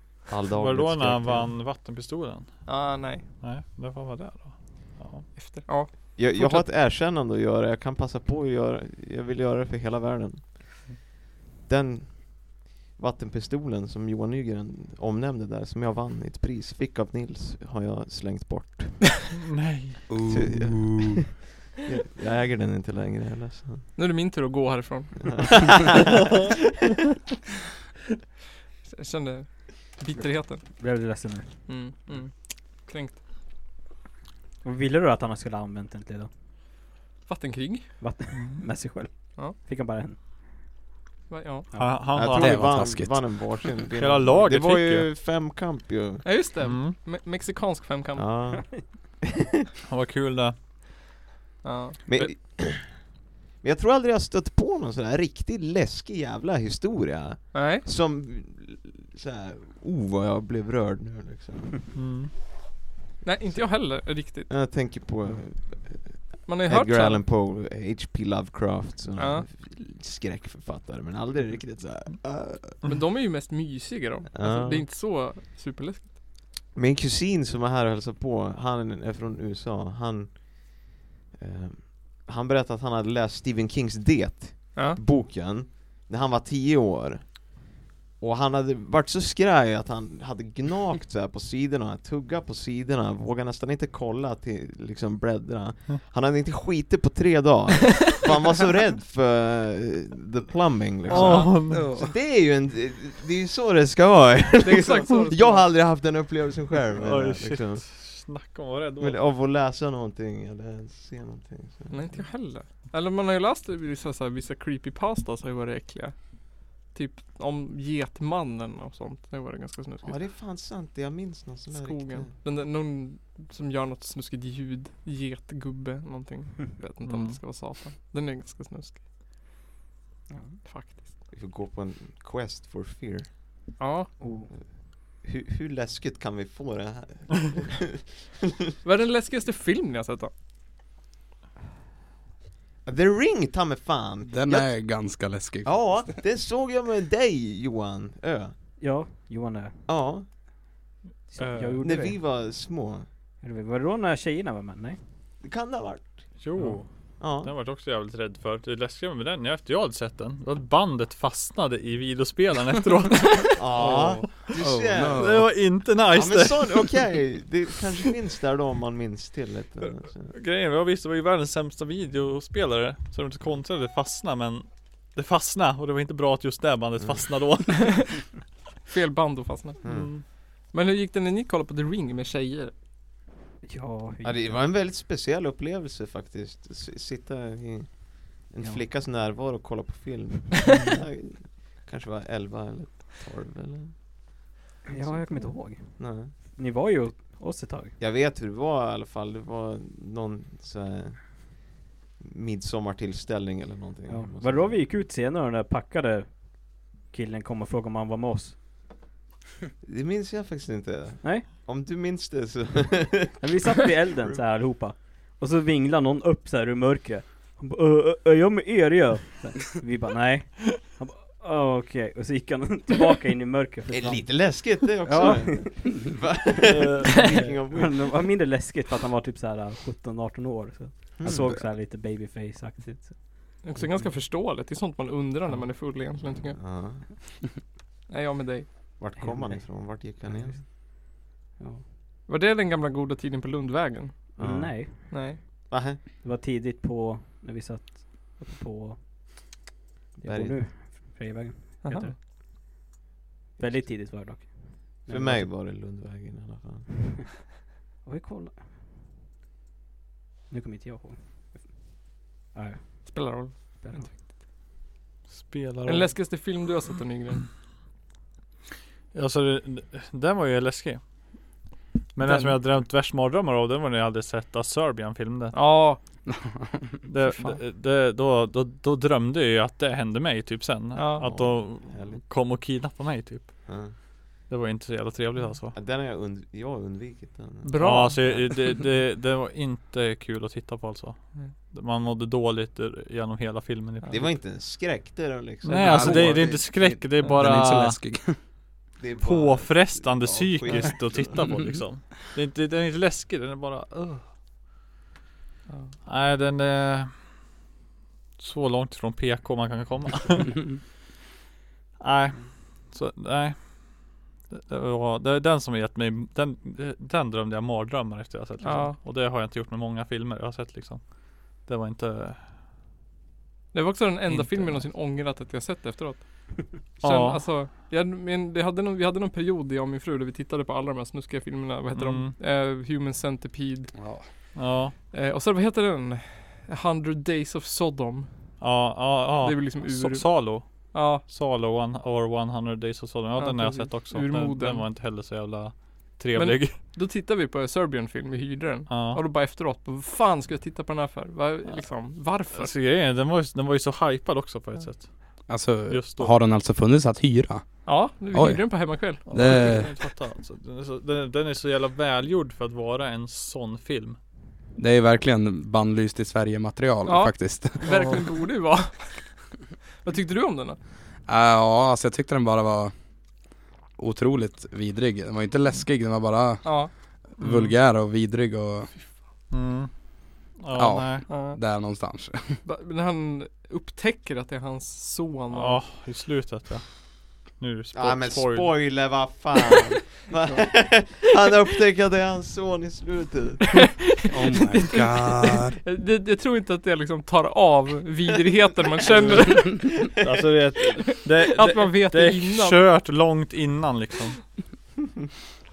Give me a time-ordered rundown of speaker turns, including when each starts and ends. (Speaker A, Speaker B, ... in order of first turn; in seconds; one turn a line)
Speaker A: 0.3-1.6
Speaker B: 0.6-5.3
Speaker C: 2.7-3.3
Speaker C: 5.3-6.7
Speaker A: 6.2-10.9
Speaker A: 11.7-19.2
Speaker B: 19.3-20.1
Speaker D: 20.1-21.2
Speaker A: 20.2-23.9
Speaker C: 24.0-25.6
Speaker A: 25.4-26.1
Speaker C: 28.8-30.8
Speaker E: 30.2-31.5
Speaker C: 31.7-33.2
Speaker E: 34.6-36.3
Speaker C: 37.3-37.9
Speaker E: 38.0-40.2
Speaker B: 38.4-38.6
Speaker C: 41.3-41.7
Speaker E: 41.7-42.0
Speaker B: 41.8-42.8
Speaker A: 42.1-46.3
Speaker D: 42.4-43.4
Speaker B: 43.8-45.1
Speaker C: 46.2-48.5
Speaker B: 46.6-47.0
Speaker A: 48.2-49.4
Speaker B: 49.9-50.6
Speaker C: 51.6-52.0
Speaker A: 52.1-53.1
Speaker A: 53.6-61.9
Speaker C: 57.5-57.9
Speaker B: 61.9-62.3
Speaker C: 63.2-64.5
Speaker A: 63.5-63.8
Speaker A: 64.5-72.8
Speaker C: 66.5-67.2
Speaker C: 69.2-69.5
Speaker C: 72.8-76.1
Speaker A: 74.3-74.9
Speaker A: 76.8-87.6
Speaker C: 84.8-85.0
Speaker A: 88.2-107.9
Speaker B: 101.1-101.9
Speaker D: 101.1-102.1
Speaker C: 104.6-105.8
Speaker B: 107.0-109.2
Speaker A: 109.0-112.3
Speaker C: 111.9-120.3
Speaker A: 120.0-122.3
Speaker C: 121.7-129.0
Speaker B: 127.0-127.4
Speaker E: 130.3-130.6
Speaker C: 130.6-131.1
Speaker A: 131.3-133.4
Speaker C: 133.8-134.1
Speaker E: 134.2-134.5
Speaker A: 134.5-138.4
Speaker C: 138.8-140.3
Speaker A: 142.8-144.8
Speaker D: 144.3-146.0
Speaker A: 145.6-148.6
Speaker E: 148.8-149.8
Speaker A: 149.9-150.3
Speaker E: 151.3-152.2
Speaker D: 151.4-151.8
Speaker A: 151.8-153.1
Speaker E: 153.4-155.0
Speaker A: 155.4-156.4
Speaker B: 156.4-164.5
Speaker A: 157.2-157.5
Speaker A: 163.6-165.4
Speaker D: 163.8-165.5
Speaker B: 165.2-167.3
Speaker A: 166.1-170.4
Speaker B: 169.9-178.3
Speaker A: 177.0-177.7
Speaker C: 177.9-178.2
Speaker C: 178.9-182.7
Speaker A: 179.8-180.1
Speaker B: 179.8-180.2
Speaker E: 183.6-184.7
Speaker A: 184.2-194.0
Speaker E: 194.9-197.9
Speaker A: 195.0-195.4
Speaker A: 195.9-196.4
Speaker A: 198.0-204.8
Speaker E: 204.1-208.6
Speaker A: 209.8-213.5
Speaker E: 211.2-211.5
Speaker E: 213.4-226.2
Speaker A: 223.9-228.2
Speaker B: 226.7-227.2
Speaker E: 227.1-234.2
Speaker A: 231.2-231.6
Speaker C: 233.6-236.6
Speaker A: 236.6-237.2
Speaker C: 238.1-239.0
Speaker A: 239.0-240.7
Speaker E: 239.2-240.7
Speaker E: 241.6-241.8
Speaker C: 242.3-244.4
Speaker A: 244.4-246.0
Speaker E: 244.4-249.6
Speaker C: 245.1-245.4
Speaker E: 250.2-252.2
Speaker A: 250.2-250.8
Speaker C: 251.8-252.1
Speaker E: 253.6-255.6
Speaker A: 255.1-257.1
Speaker E: 258.0-258.8
Speaker E: 260.5-264.3
Speaker C: 263.1-264.2
Speaker B: 265.3-266.2
Speaker C: 265.9-267.5
Speaker B: 269.1-271.0
Speaker B: 272.1-275.6
Speaker C: 272.2-272.6
Speaker C: 275.5-276.0
Speaker D: 276.3-276.8
Speaker B: 277.1-285.8
Speaker C: 277.2-277.6
Speaker C: 280.9-281.3
Speaker A: 281.2-282.2
Speaker A: 283.7-284.0
Speaker A: 285.7-288.6
Speaker C: 287.6-288.5
Speaker B: 287.8-294.4
Speaker C: 294.0-294.3
Speaker A: 294.1-296.7
Speaker B: 295.6-298.0
Speaker D: 295.7-298.4
Speaker A: 298.9-301.5
Speaker B: 299.2-304.3
Speaker C: 305.7-305.9
Speaker B: 306.1-307.5
Speaker B: 308.4-310.8
Speaker B: 312.0-322.5
Speaker C: 318.6-319.0
Speaker C: 323.7-338.6
Speaker B: 324.3-324.9
Speaker B: 327.0-327.5
Speaker B: 331.9-332.4
Speaker D: 333.9-334.3
Speaker B: 334.6-334.9
Speaker B: 338.6-346.8
Speaker C: 339.4-341.2
Speaker C: 343.4-344.9
Speaker C: 346.4-352.7
Speaker B: 348.9-349.2
Speaker B: 351.7-356.4
Speaker D: 355.5-359.9
Speaker C: 357.9-359.7
Speaker B: 359.3-364.2
Speaker D: 364.8-368.2
Speaker C: 367.1-369.5
Speaker B: 367.9-368.2
Speaker C: 370.0-370.8
Speaker D: 371.3-372.9
Speaker D: 373.9-379.0
Speaker C: 376.6-376.9
Speaker B: 377.4-377.7
Speaker B: 379.5-381.3
Speaker D: 380.8-382.6
Speaker C: 381.3-381.6
Speaker C: 382.6-385.8
Speaker B: 385.5-389.1
Speaker A: 387.9-394.0
Speaker C: 390.5-391.0
Speaker C: 393.8-400.0
Speaker D: 394.3-395.8
Speaker A: 399.1-400.4
Speaker B: 399.1-404.5
Speaker C: 401.4-402.8